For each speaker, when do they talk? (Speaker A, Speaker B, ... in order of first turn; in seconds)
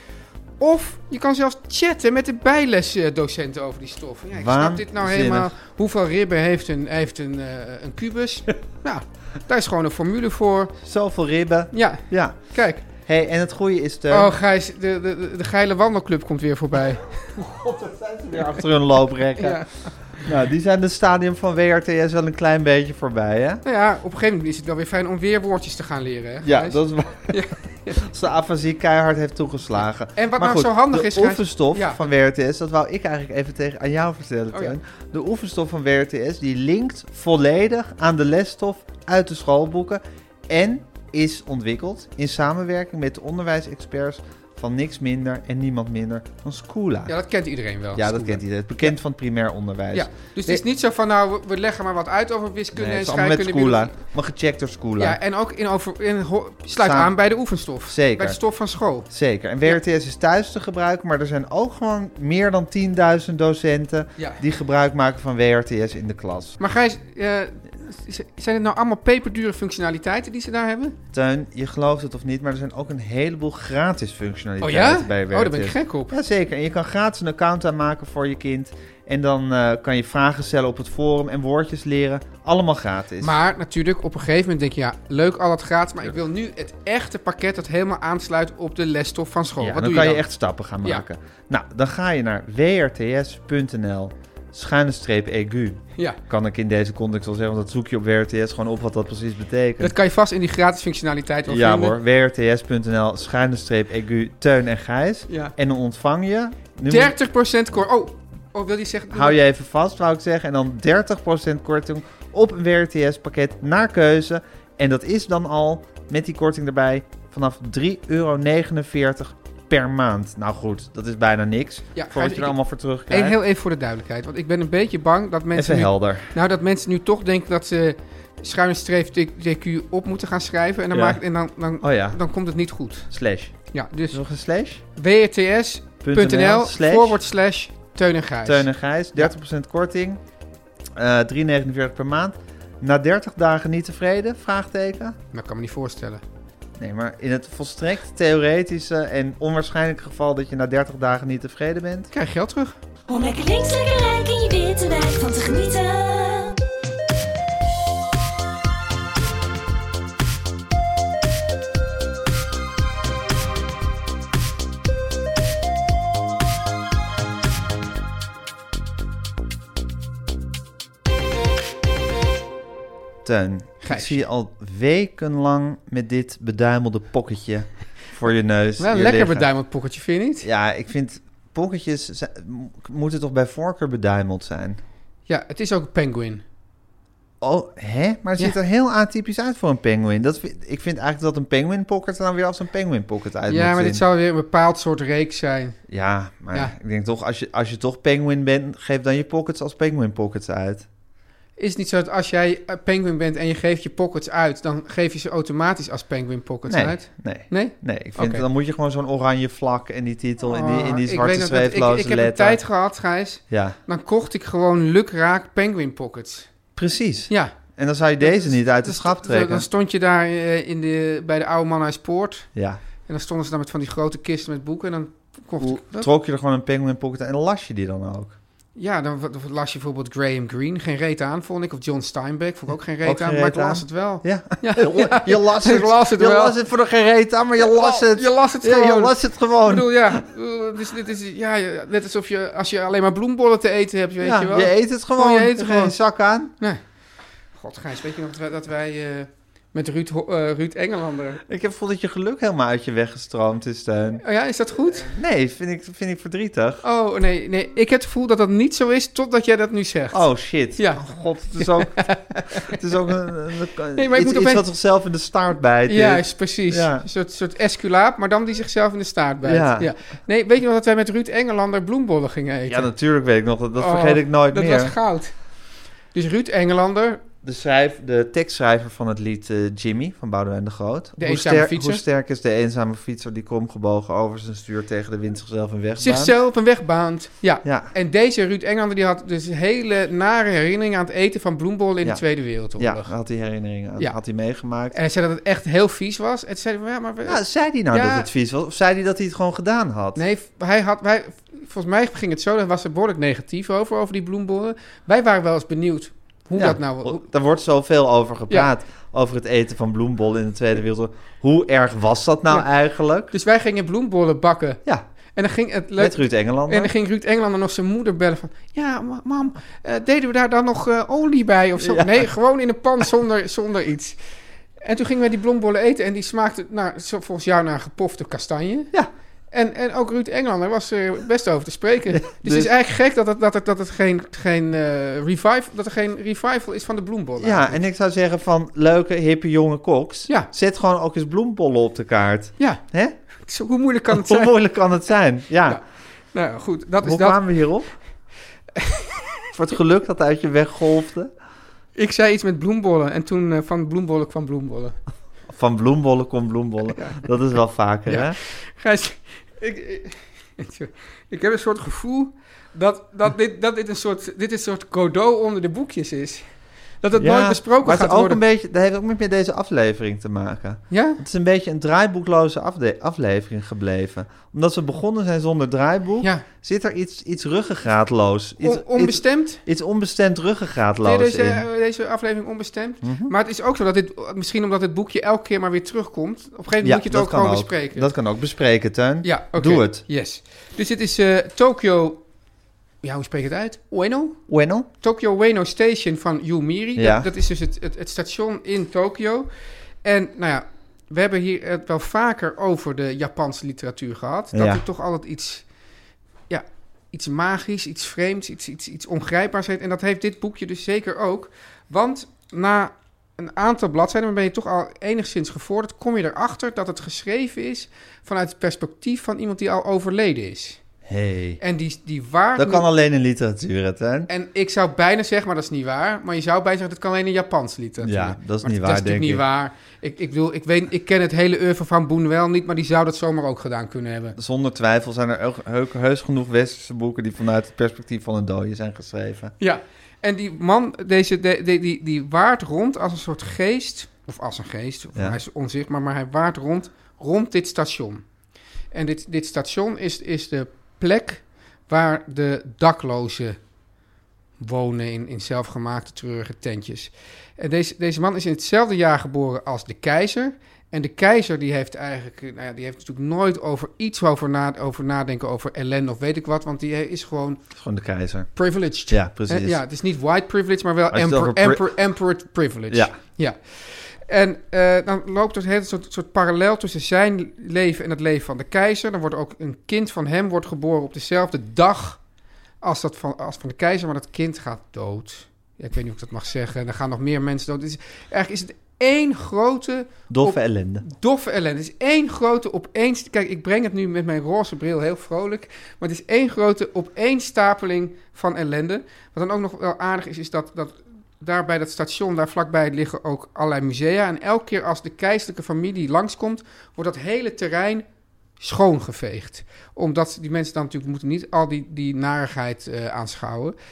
Speaker A: 0.6-10.7, 11.7-12.8, 14.1-17.1, 19.4-20.0, 23.6-28.0, 30.2-32.0, 47.1-49.0, 49.9-53.9, 55.0-59.1, 66.6-71.0, 74.6-76.1, 83.2-90.2, 99.8-102.0, 105.3-105.5, 106.9-109.4, 122.0-122.6, 123.1-133.1, 133.7-134.2, 134.9-139.3, 145.3-146.2, 152.1-152.8, 173.8-174.2, 178.8-180.5, 185.3-186.4, 193.5-195.8, 201.6-208.5, 210.5-216.5, 217.3-217.5, 218.2-222.5, 223.1-226.1, 228.8-236.6, 237.6-245.9, 247.5-251.4, 254.2-255.2, 256.8-262.8, 263.9-264.6, 265.9-272.9, 273.8-275.4, 276.1-277.2, 281.2-282.0, 286.0-293.1, 294.9-298.3, 300.1-307.2, 313.3-314.8, 315.4-324.2, 324.8-328.9, 329.5-337.8, 343.4-344.5, 345.7-347.4, 352.0-355.0, 356.9-357.2, 358.1-366.4, 367.0-368.4, 370.9-371.2, 376.2-376.5, 378.6-379.6, 381.0-388.1, 389.2-392.2, 393.0-394.4, 395.0-399.5, 400.0-405.7, 406.5-420.8, 421.6-422.9, 424.3-434.4, 439.6-448.2, 448.9-453.6, 454.6-467.6, 468.6-482.2, 482.8-508.1, 508.6-513.8
Speaker B: 4.3-5.5, 10.8-14.3, 17.4-23.6, 26.4-47.1, 47.9-50.6, 52.7-55.2, 56.8-58.4, 59.0-66.6, 71.1-83.4, 89.6-99.9, 101.5-107.2, 109.1-123.4, 125.5-126.3, 130.9-131.2, 131.8-132.2, 133.1-134.8, 136.0-137.2, 138.4-140.2, 141.0-145.2, 146.8-152.1, 173.2-179.5, 180.4-184.8, 187.4-194.0, 195.9-200.9, 206.7-212.6, 213.5-213.8, 216.8-219.7, 222.6-222.8, 225.6-228.4, 233.0-240.2, 244.2-246.5, 251.5-254.3, 254.9-256.8, 260.1-267.1, 269.4-269.9, 272.7-275.0, 277.4-286.3, 287.6-287.9, 292.0-294.9, 297.2-300.2, 306.6-313.3, 316.0-316.9, 321.8-322.3, 332.1-332.7, 337.4-343.2, 344.1-345.8, 347.0-348.0, 349.5-351.3, 355.5-358.4, 367.2-381.7, 383.0-383.3, 386.8-390.0, 394.5-394.9, 397.0-397.3, 404.5-404.8, 421.1-421.6, 422.6-424.3, 428.0-429.4, 434.4-439.5, 467.7-468.5, 469.1-469.8, 471.1-471.9, 472.9-473.2, 490.3-491.1
Speaker C: 153.1-156.6